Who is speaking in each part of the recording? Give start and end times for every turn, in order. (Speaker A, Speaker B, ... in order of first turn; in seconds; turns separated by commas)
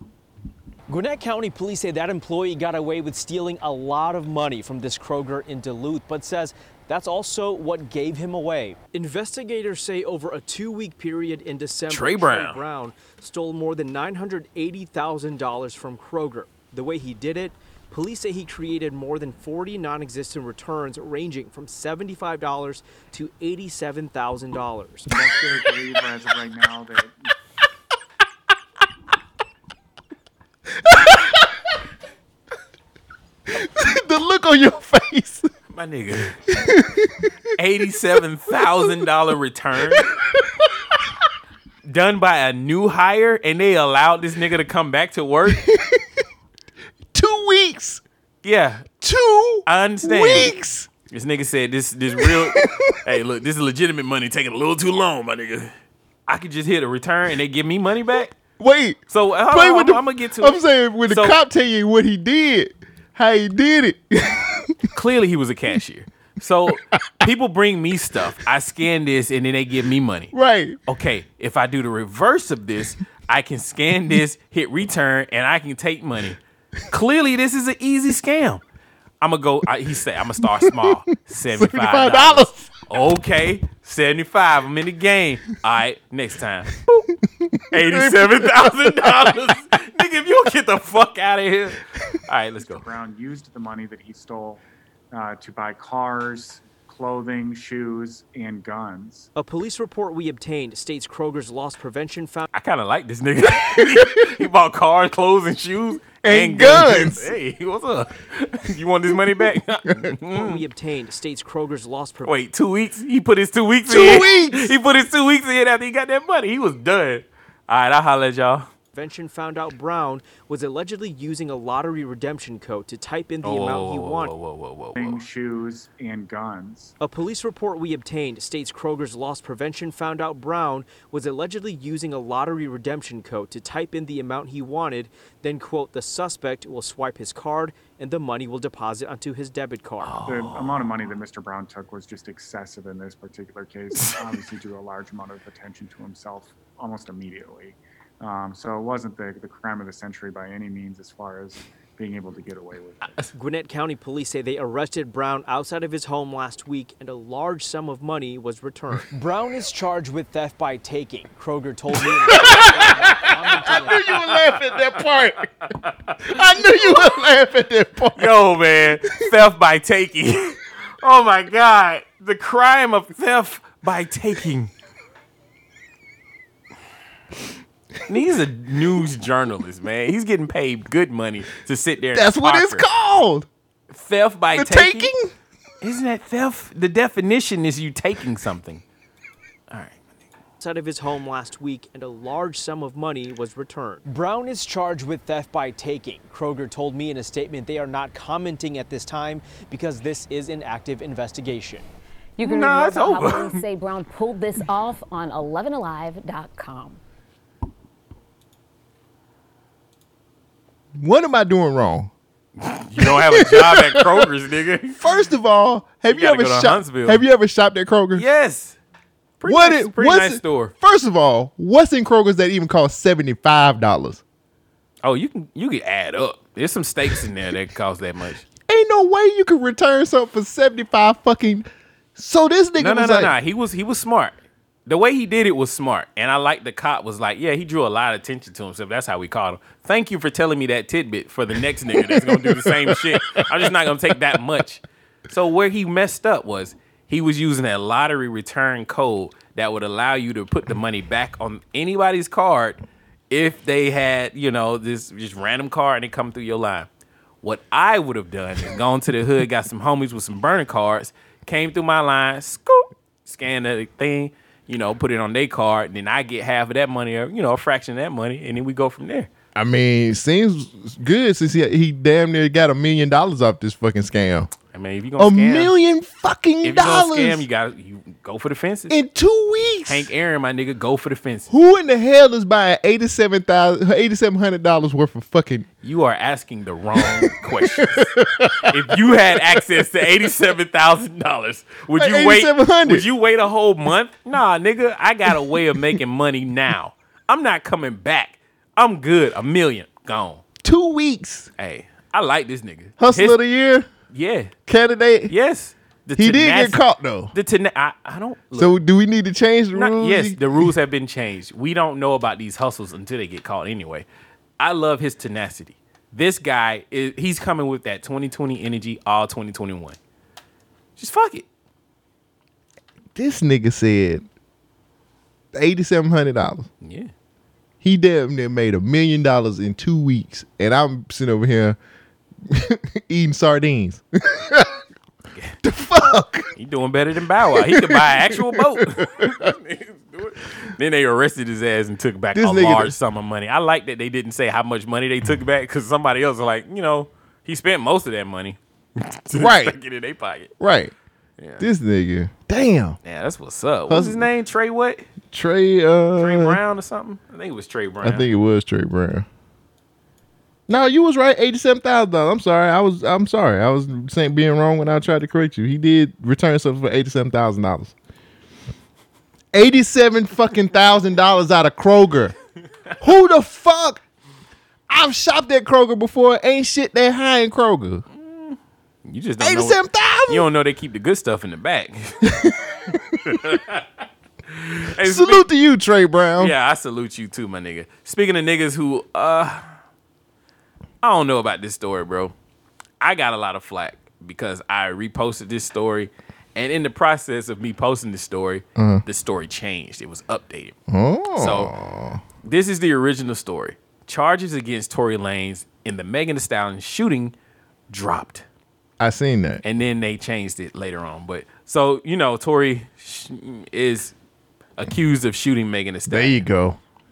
Speaker A: 0.9-25.1, Speaker B: 11.9-12.6, Speaker C: 25.1-27.3, Speaker D: 30.8-31.5, Speaker D: 33.5-35.5, Speaker B: 35.7-36.4, Speaker D: 36.5-37.3, Speaker B: 37.6-40.1, Speaker D: 39.9-40.7, Speaker B: 41.9-45.6, Speaker D: 45.5-46.2, Speaker D: 47.1-48.0, Speaker B: 48.4-48.9, Speaker D: 49.0-50.9, Speaker B: 49.7-50.5, Speaker B: 51.1-55.7, Speaker D: 52.2-53.0, Speaker B: 56.3-58.3, Speaker D: 58.6-64.8, Speaker B: 59.1-61.4, Speaker B: 64.9-70.3, Speaker D: 70.3-70.8, Speaker B: 70.9-78.6, Speaker B: 79.2-87.1, Speaker D: 80.4-80.9, Speaker D: 81.5-82.7, Speaker D: 87.4-89.5, Speaker B: 87.7-92.8, Speaker C: 92.7-94.6, Speaker C: 95.1-99.3, Speaker A: 99.3-102.5, Speaker B: 102.5-110.6, Speaker D: 103.6-104.2, Speaker D: 106.2-107.3, Speaker D: 109.1-110.1, Speaker A: 110.3-112.4, Speaker B: 112.2-118.7, Speaker D: 113.9-114.7, Speaker A: 118.9-124.3, Speaker B: 123.4-125.2, Speaker C: 125.0-127.0, Speaker A: 127.0-140.2, Speaker B: 140.0-141.1, Speaker C: 140.2-153.2, Speaker B: 144.0-144.3, Speaker A: 153.3-164.1, Speaker D: 162.4-165.5, Speaker B: 162.4-163.2, Speaker B: 163.9-165.1, Speaker B: 165.7-166.3, Speaker D: 166.2-168.4, Speaker B: 168.2-174.7, Speaker B: 178.1-182.9, Speaker D: 182.1-183.5, Speaker B: 183.9-185.1, Speaker D: 184.5-185.3, Speaker B: 185.8-188.8, Speaker B: 189.7-190.0, Speaker A: 190.6-201.9, Speaker E: 202.4-207.0, Speaker B: 202.4-203.6, Speaker D: 211.0-212.1, Speaker B: 212.6-215.0, Speaker D: 213.0-214.3, Speaker D: 215.0-218.3, Speaker B: 216.1-217.2, Speaker B: 218.2-218.8, Speaker B: 219.4-220.7, Speaker D: 219.4-224.2, Speaker B: 225.0-228.4, Speaker D: 228.7-233.3, Speaker B: 232.8-234.3, Speaker B: 234.9-256.9, Speaker D: 241.9-243.7, Speaker B: 257.4-269.3, Speaker D: 269.6-274.5, Speaker B: 274.7-275.7, Speaker D: 275.2-277.4, Speaker B: 276.6-279.0, Speaker D: 278.9-280.1, Speaker B: 279.9-281.5, Speaker D: 281.5-285.7, Speaker B: 285.8-288.1, Speaker D: 287.0-288.8, Speaker B: 288.7-300.4, Speaker D: 291.9-293.1, Speaker D: 295.3-295.6, Speaker D: 300.6-301.5, Speaker B: 301.6-303.4, Speaker D: 303.0-303.9, Speaker B: 304.1-304.5, Speaker D: 304.7-305.3, Speaker B: 305.3-306.8, Speaker D: 306.2-307.3, Speaker B: 307.3-308.8, Speaker D: 308.6-310.7, Speaker B: 309.7-314.1, Speaker B: 314.6-320.0, Speaker B: 321.0-321.5, Speaker D: 323.1-324.2, Speaker D: 325.5-326.7, Speaker B: 326.8-327.1, Speaker D: 327.8-331.8, Speaker D: 332.5-334.8, Speaker D: 335.6-336.5, Speaker B: 336.6-350.5, Speaker D: 337.5-339.5, Speaker D: 342.4-342.9, Speaker D: 349.3-349.8, Speaker D: 350.6-350.9, Speaker B: 351.4-351.7, Speaker D: 351.6-353.0, Speaker B: 353.0-355.1, Speaker D: 353.9-354.3, Speaker D: 355.3-356.6, Speaker B: 356.2-358.3, Speaker D: 358.0-359.3, Speaker D: 360.7-367.9, Speaker D: 369.5-372.3, Speaker D: 373.0-374.0, Speaker D: 374.9-378.1, Speaker B: 378.1-382.3, Speaker D: 379.4-380.5, Speaker D: 382.2-383.1, Speaker B: 383.2-383.9, Speaker B: 384.5-385.5, Speaker D: 385.0-386.6, Speaker B: 386.4-389.6, Speaker B: 391.0-392.3, Speaker B: 393.0-400.8, Speaker D: 398.8-399.0, Speaker D: 400.9-402.2, Speaker B: 401.4-401.7, Speaker B: 402.4-407.4, Speaker B: 407.9-408.4, Speaker D: 409.0-409.6, Speaker B: 409.6-414.1, Speaker B: 414.8-416.4, Speaker D: 416.1-416.8